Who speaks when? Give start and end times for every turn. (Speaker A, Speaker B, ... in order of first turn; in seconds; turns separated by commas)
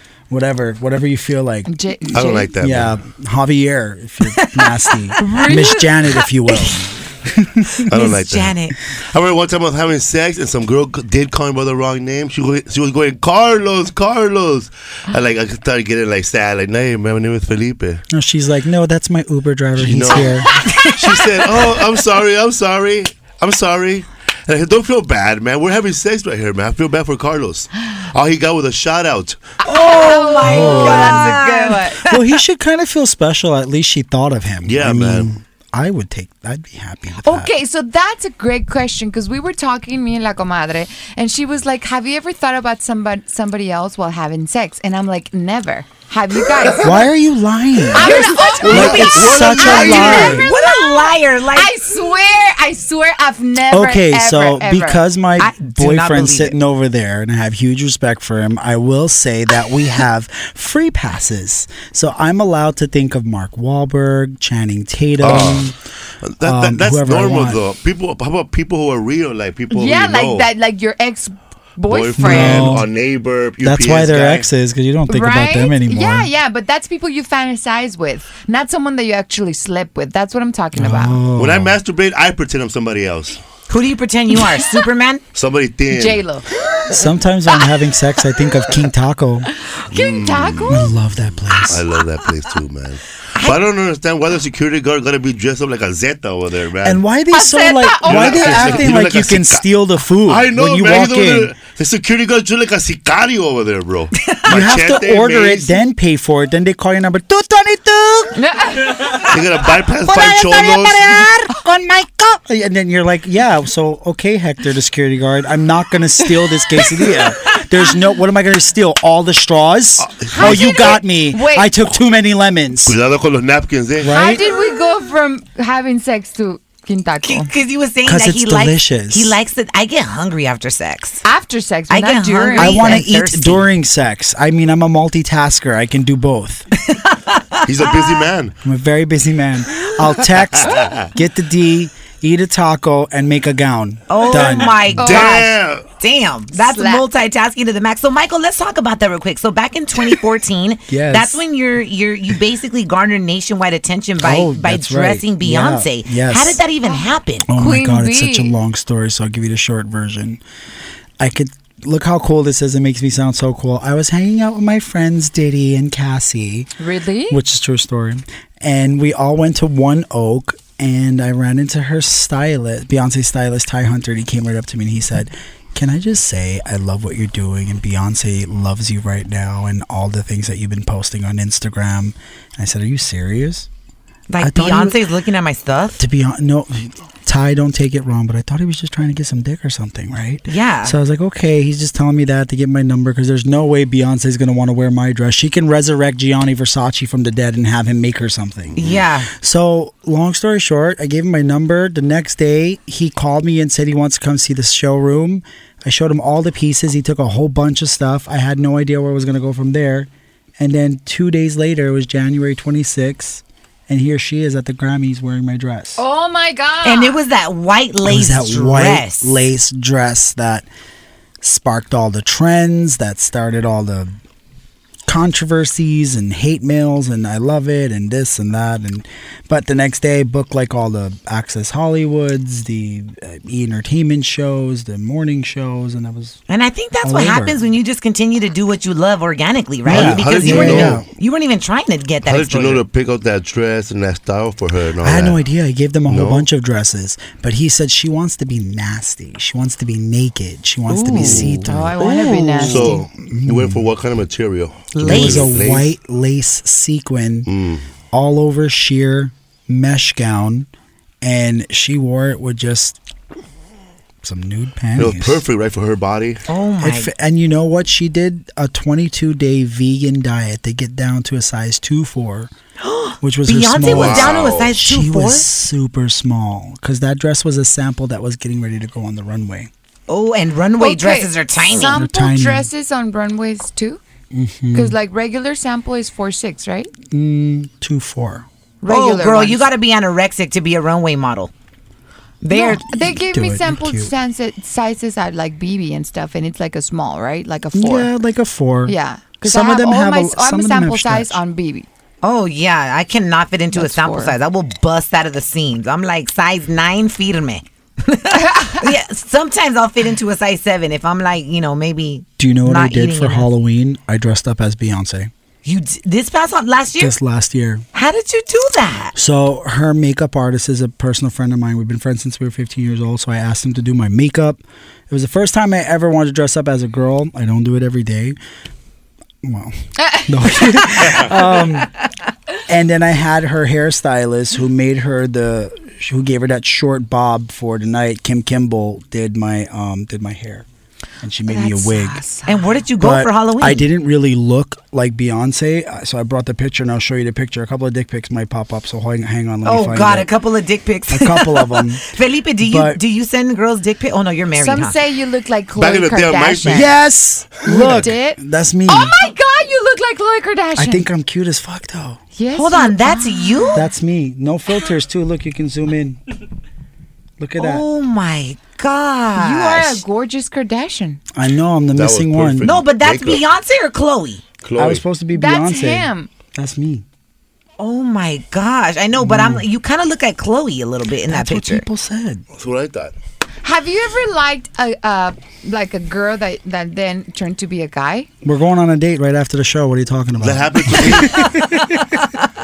Speaker A: 0.3-7.9, Speaker B: 1.7-2.5, Speaker C: 2.1-3.0, Speaker D: 4.3-6.7, Speaker B: 5.2-5.8, Speaker D: 7.8-8.8, Speaker C: 7.9-18.0, Speaker A: 18.1-20.6, Speaker C: 19.8-29.4, Speaker D: 20.7-21.0, Speaker B: 29.6-32.0, Speaker D: 29.6-32.2, Speaker A: 30.4-31.4, Speaker A: 32.0-37.5, Speaker C: 34.6-35.3, Speaker B: 37.2-47.0, Speaker A: 46.8-50.5, Speaker B: 47.9-55.0, Speaker D: 48.0-51.7, Speaker C: 48.1-50.5, Speaker A: 53.7-65.8, Speaker D: 55.4-56.5, Speaker C: 65.2-70.5, Speaker A: 66.4-67.6, Speaker B: 69.7-72.8, Speaker C: 71.9-74.5, Speaker A: 72.2-72.9, Speaker A: 73.6-76.3, Speaker B: 75.1-81.2, Speaker A: 80.8-81.8, Speaker C: 81.4-83.4, Speaker D: 83.7-85.2, Speaker C: 85.3-86.2, Speaker B: 85.9-86.5, Speaker A: 86.9-89.5, Speaker B: 89.7-91.0, Speaker C: 89.9-90.9, Speaker A: 90.7-91.8, Speaker C: 91.6-97.0, Speaker A: 96.8-101.6, Speaker B: 97.3-99.0, Speaker C: 98.1-99.6, Speaker C: 100.2-105.8, Speaker A: 104.5-108.4, Speaker B: 108.4-109.0, Speaker C: 109.0-111.3, Speaker A: 110.0-123.0, Speaker C: 120.0-120.9, Speaker B: 120.3-121.7, Speaker C: 122.9-124.2, Speaker A: 124.0-124.4, Speaker B: 124.1-127.5, Speaker D: 127.2-131.2, Speaker A: 128.1-129.4, Speaker B: 131.2-133.0, Speaker D: 131.9-133.7, Speaker A: 132.6-136.7, Speaker D: 136.9-137.6, Speaker C: 137.6-138.6, Speaker A: 138.6-145.1, Speaker C: 140.6-140.9, Speaker D: 144.1-157.5, Speaker B: 144.3-145.4, Speaker C: 145.0-145.9, Speaker B: 146.6-147.1, Speaker A: 150.9-151.4, Speaker A: 154.2-156.6, Speaker A: 157.5-160.4, Speaker B: 157.6-158.5, Speaker A: 161.2-166.7, Speaker B: 166.8-167.4, Speaker A: 167.3-183.7, Speaker D: 184.3-186.0, Speaker A: 184.4-185.0, Speaker A: 186.0-216.0, Speaker D: 190.5-191.0, Speaker D: 198.8-199.3, Speaker B: 216.0-217.2, Speaker D: 216.8-219.3, Speaker A: 218.1-220.7, Speaker A: 221.4-224.2, Speaker A: 225.1-236.4, Speaker D: 236.5-242.8, Speaker A: 237.0-237.6, Speaker A: 239.8-241.1, Speaker C: 239.9-241.0, Speaker C: 242.2-245.4, Speaker A: 245.0-252.0, Speaker C: 246.1-246.5, Speaker D: 250.9-251.3, Speaker B: 251.0-253.0, Speaker C: 251.1-251.7, Speaker D: 252.0-252.9, Speaker C: 252.4-255.9, Speaker A: 253.2-253.8, Speaker D: 254.9-255.5, Speaker A: 255.0-257.5, Speaker C: 257.5-257.9, Speaker A: 258.1-260.7, Speaker A: 261.2-263.0, Speaker A: 264.2-265.4, Speaker C: 265.0-266.4, Speaker D: 266.5-267.1, Speaker A: 266.8-272.5, Speaker D: 272.8-275.5, Speaker A: 273.2-279.7, Speaker C: 273.9-274.7, Speaker D: 280.1-282.0, Speaker B: 280.8-284.0, Speaker A: 281.9-282.7, Speaker A: 284.3-285.0, Speaker B: 284.7-286.9, Speaker A: 287.1-288.5, Speaker D: 288.8-291.5, Speaker B: 288.9-289.7, Speaker D: 292.4-292.8, Speaker B: 292.5-298.1, Speaker A: 292.9-294.1, Speaker A: 297.7-301.4, Speaker B: 298.9-301.9, Speaker D: 302.2-313.5, Speaker B: 303.7-304.4, Speaker B: 308.4-308.9, Speaker A: 312.4-315.3, Speaker D: 315.6-317.1, Speaker A: 317.0-317.9, Speaker D: 317.9-319.1, Speaker A: 319.2-328.4, Speaker A: 329.4-331.9, Speaker B: 330.0-331.0, Speaker A: 332.7-340.7, Speaker A: 341.2-342.2, Speaker B: 341.5-342.8, Speaker D: 342.5-343.9, Speaker A: 343.0-350.3, Speaker D: 349.6-355.0, Speaker A: 351.1-352.1, Speaker A: 352.6-353.0, Speaker B: 354.6-356.9, Speaker C: 355.8-356.9, Speaker A: 356.7-359.2, Speaker B: 357.6-361.1, Speaker A: 360.8-362.2, Speaker B: 362.4-363.8, Speaker D: 362.5-363.8, Speaker A: 363.7-366.2, Speaker A: 367.4-367.8, Speaker D: 367.6-370.0, Speaker B: 369.4-371.2, Speaker A: 371.3-372.7, Speaker C: 371.9-373.4, Speaker D: 372.6-374.4, Speaker C: 374.6-375.0, Speaker A: 374.8-377.1, Speaker B: 375.3-376.3, Speaker D: 377.8-381.8, Speaker A: 379.2-379.6, Speaker A: 381.3-382.4, Speaker C: 382.6-383.1, Speaker B: 383.6-388.3, Speaker A: 388.4-392.1, Speaker C: 390.4-391.5